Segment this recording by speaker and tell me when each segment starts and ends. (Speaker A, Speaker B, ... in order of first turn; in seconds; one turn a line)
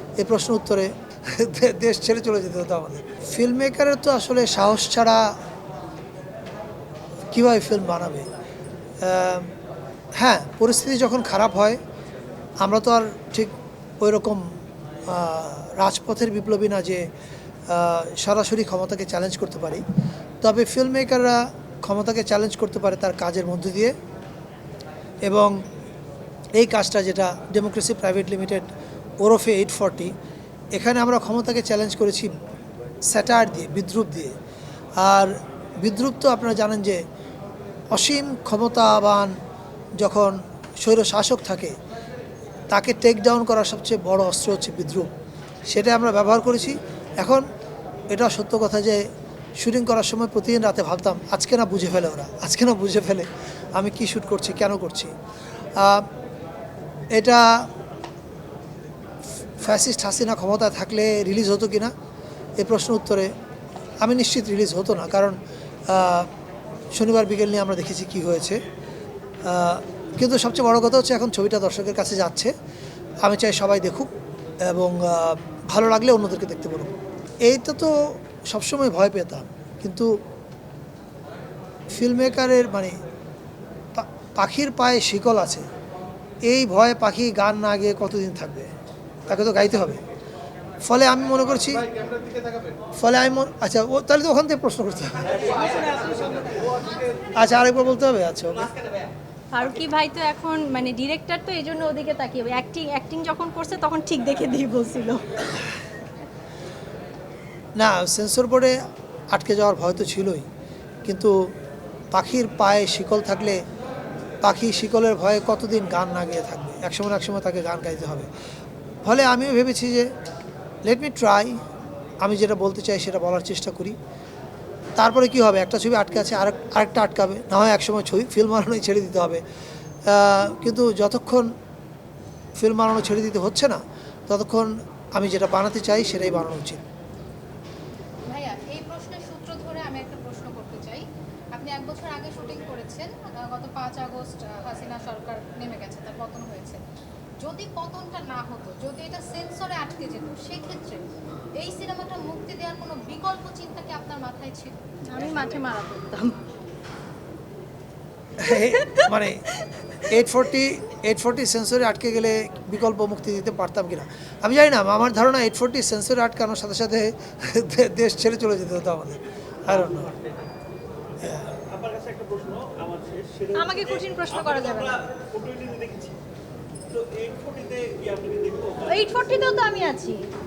Speaker A: 0.2-5.4
Speaker A: 7.3-8.3
Speaker A: 9.0-9.5
Speaker A: 10.2-11.8
Speaker A: 12.6-14.5
Speaker A: 15.1-17.1
Speaker A: 17.7-19.8
Speaker A: 20.4-23.9
Speaker A: 25.2-25.6
Speaker A: 26.6-28.7
Speaker A: 29.2-30.1
Speaker A: 30.7-32.3
Speaker A: 33.1-34.3
Speaker A: 35.0-37.0
Speaker A: 37.9-39.3
Speaker A: 40.0-41.8
Speaker A: 42.7-45.1
Speaker A: 45.7-47.5
Speaker A: 48.1-49.0
Speaker A: 49.6-55.1
Speaker A: 55.8-56.1
Speaker A: 57.1-57.7
Speaker A: 59.6-61.9
Speaker A: 62.6-63.3
Speaker A: 64.0-66.3
Speaker A: 66.9-68.6
Speaker A: 69.5-72.5
Speaker A: 73.2-74.1
Speaker A: 74.7-76.9
Speaker A: 77.5-80.2
Speaker A: 81.9-83.0
Speaker A: 84.0-85.7
Speaker A: 86.5-88.7
Speaker A: 89.3-90.0
Speaker A: 90.8-91.9
Speaker A: 93.0-95.6
Speaker B: 95.7-97.3
Speaker A: 97.3-98.7
Speaker C: 99.5-105.6
Speaker A: 107.8-108.8
Speaker A: 109.3-110.5
Speaker A: 111.0-111.3
Speaker A: 112.1-113.6
Speaker A: 114.4-118.3
Speaker A: 119.0-120.1
Speaker A: 120.8-121.6
Speaker A: 122.2-124.0
Speaker A: 125.0-129.4
Speaker A: 130.1-131.5
Speaker A: 132.6-136.8
Speaker B: 138.3-146.8
Speaker B: 147.4-151.0
Speaker B: 151.6-155.6
Speaker C: 155.1-156.3
Speaker A: 158.4-159.4
Speaker C: 158.6-159.1
Speaker A: 160.0-170.1
Speaker D: 169.9-170.3
Speaker A: 171.2-171.5
Speaker D: 171.6-176.2
Speaker C: 173.6-175.0
Speaker D: 176.9-179.2
Speaker C: 178.9-180.2